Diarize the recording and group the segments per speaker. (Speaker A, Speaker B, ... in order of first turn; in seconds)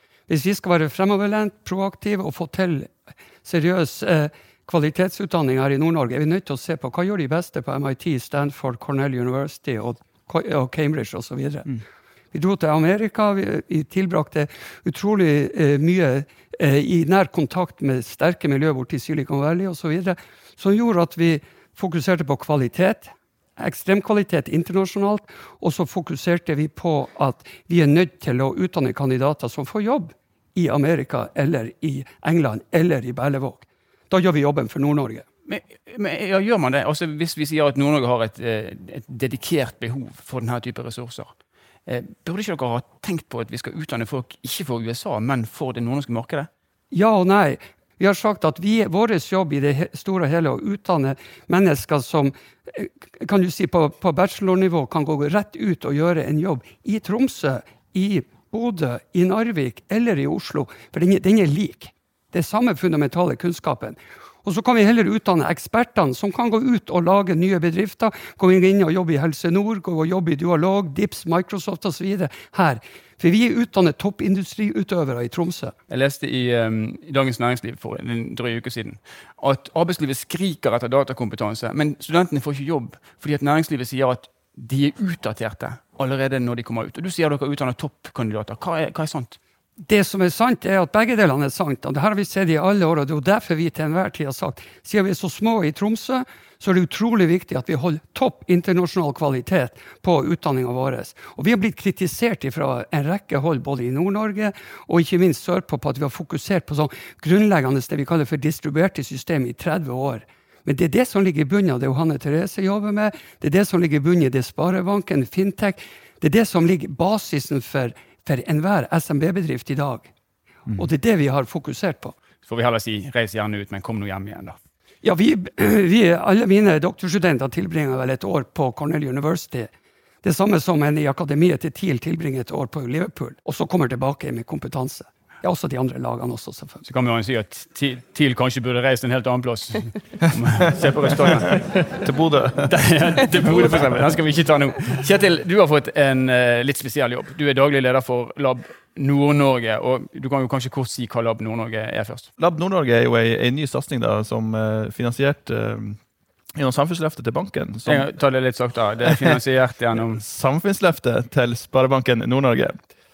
Speaker A: 0.3-11.8, 12.3-35.2, 46.9-75.7, 89.9-120.1, 120.8-122.1, 125.0-129.7, 130.2-136.8
Speaker B: 35.5-41.3, 41.9-46.5, 75.9-89.4, 122.5-124.6, 136.8-142.0, 142.7-152.3, 157.8-160.2
Speaker C: 142.0-143.8, 152.4-156.0, 156.6-158.1, 160.1-162.8